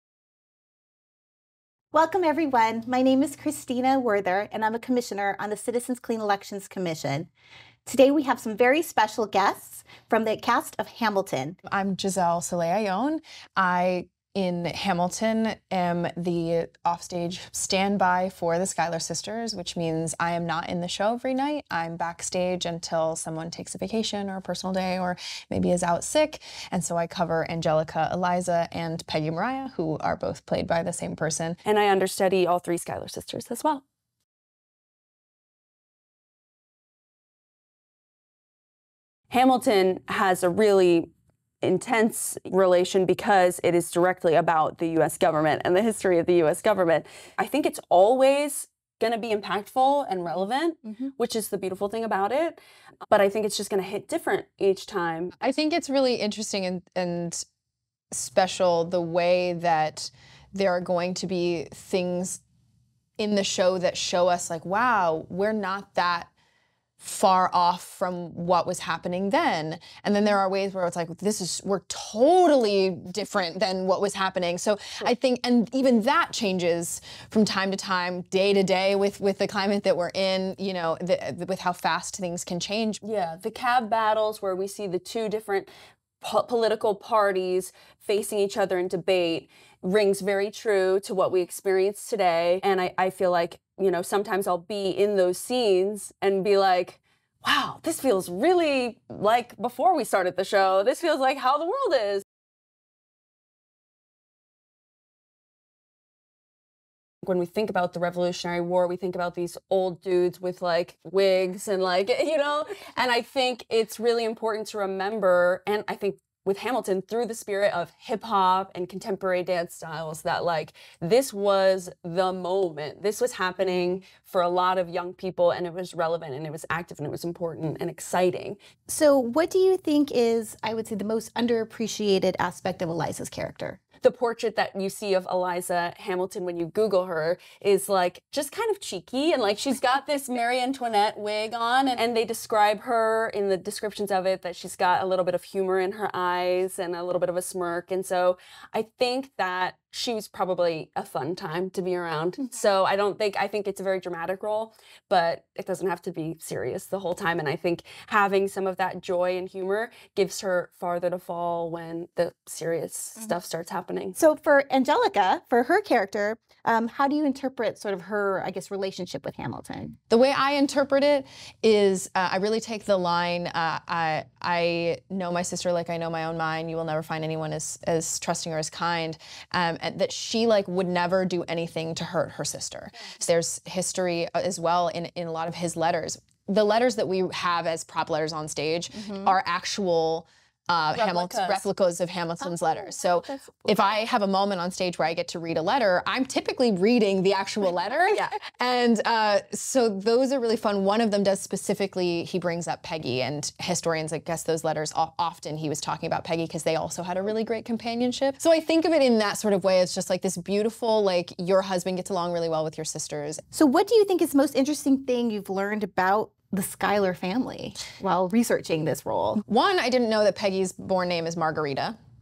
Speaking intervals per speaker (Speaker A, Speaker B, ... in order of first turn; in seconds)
Speaker A: 1.9-7.3, 7.9-11.6, 123.6-123.9, 128.9-133.8, 164.2-170.0, 188.9-189.4, 192.4-193.9, 213.5-219.4
Speaker B: 11.7-31.6, 55.4-57.4, 58.1-62.4, 63.2-66.3, 67.0-83.0, 170.1-213.4, 219.5-222.0
Speaker C: 31.6-33.8, 39.3-41.1, 41.6-55.4, 83.0-102.2, 107.2-128.6, 134.0-164.2, 190.9-191.7, 198.1-198.4